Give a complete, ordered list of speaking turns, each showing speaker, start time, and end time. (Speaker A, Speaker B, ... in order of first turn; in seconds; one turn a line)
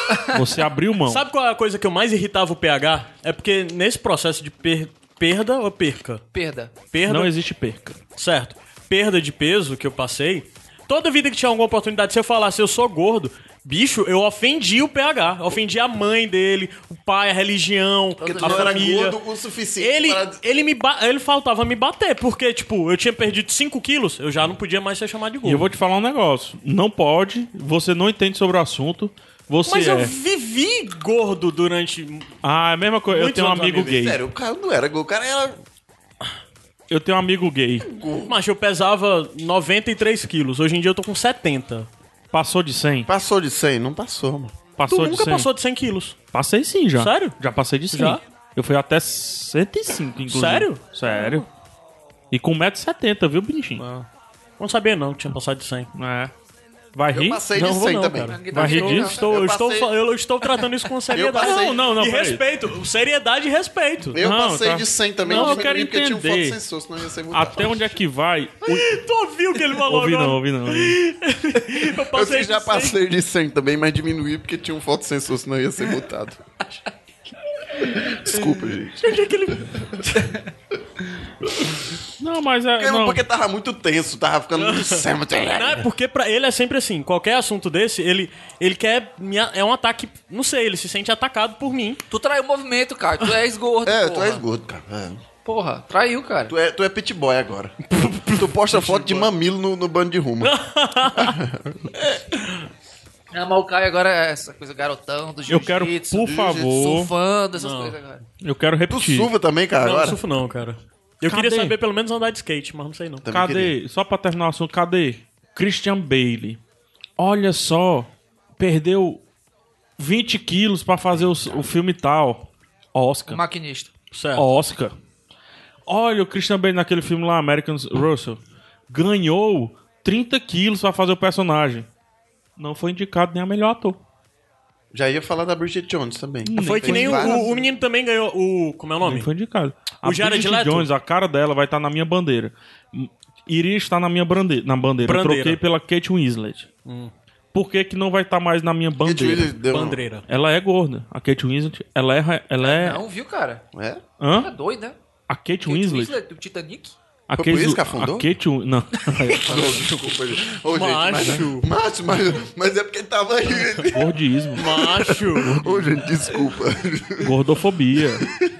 Speaker A: 0.3-1.2
Speaker B: 1.1-6.2
Speaker C: 6.3-6.7
Speaker B: 6.9-7.3
Speaker A: 7.1-8.0
Speaker B: 8.2-19.2
Speaker C: 18.2-18.9
Speaker D: 18.4-20.4
Speaker B: 19.8-25.6
Speaker A: 25.4-30.1
Speaker B: 29.6-32.3
Speaker A: 32.4-34.2
Speaker B: 33.1-34.0
Speaker D: 33.8-35.6
Speaker A: 36.9-37.9
Speaker D: 37.8-38.4
Speaker B: 38.3-41.9
Speaker A: 42.3-43.1
Speaker D: 43.1-44.5
Speaker A: 44.8-45.5
Speaker B: 44.9-46.2
Speaker A: 46.3-51.5
Speaker B: 47.0-47.4
Speaker B: 47.9-48.2
Speaker B: 50.3-51.4
Speaker A: 52.3-53.8
Speaker B: 53.8-54.1
Speaker B: 54.6-55.9
Speaker A: 55.9-56.3
Speaker A: 56.9-57.4
Speaker D: 57.1-58.4
Speaker B: 57.5-64.2
Speaker C: 58.3-59.6
Speaker A: 58.5-59.2
Speaker D: 59.1-59.9
Speaker D: 61.1-61.8
Speaker A: 61.4-62.4
Speaker D: 64.1-67.8
Speaker A: 64.2-66.6
Speaker B: 65.3-65.7
Speaker A: 67.3-69.0
Speaker B: 68.6-73.0
Speaker A: 69.9-71.0
Speaker D: 72.1-76.4
Speaker D: 78.0-79.2
Speaker B: 79.0-80.3
Speaker A: 82.2-83.2
Speaker D: 82.8-85.9
Speaker B: 84.6-92.0
Speaker C: 92.1-94.4
Speaker D: 93.8-95.2
Speaker C: 95.4-96.5
Speaker D: 96.5-100.5
Speaker B: 97.9-99.3
Speaker B: 100.4-101.4
Speaker D: 101.1-102.1
Speaker C: 103.3-108.2
Speaker A: 105.5-107.1
Speaker D: 106.2-106.8
Speaker B: 107.5-108.0
Speaker A: 108.4-109.3
Speaker D: 108.9-110.2
Speaker B: 109.8-113.2
Speaker A: 111.3-111.8
Speaker D: 113.2-113.8
Speaker A: 113.3-116.6
Speaker A: 117.2-119.2
Speaker A: 120.0-123.4
Speaker C: 123.3-123.9
Speaker B: 124.1-124.5
Speaker A: 124.4-124.9
Speaker A: 125.9-131.9
Speaker A: 132.6-134.0
Speaker D: 134.9-137.6
Speaker A: 136.4-137.5
Speaker B: 136.6-139.3
Speaker A: 139.0-146.7
Speaker B: 140.0-140.9
Speaker B: 145.0-145.6
Speaker B: 146.9-147.1
Speaker A: 147.5-149.5
Speaker D: 149.0-150.0
Speaker B: 149.7-150.2
Speaker A: 150.3-153.0
Speaker C: 152.6-153.6
Speaker D: 153.7-154.0
Speaker A: 154.2-154.5
Speaker C: 154.3-155.0
Speaker A: 155.3-156.1
Speaker C: 155.7-156.9
Speaker A: 157.3-159.9
Speaker D: 157.4-158.3
Speaker D: 159.4-167.4
Speaker B: 160.6-161.7
Speaker A: 163.9-164.6
Speaker B: 164.6-165.5
Speaker A: 165.4-165.8
Speaker A: 167.2-168.3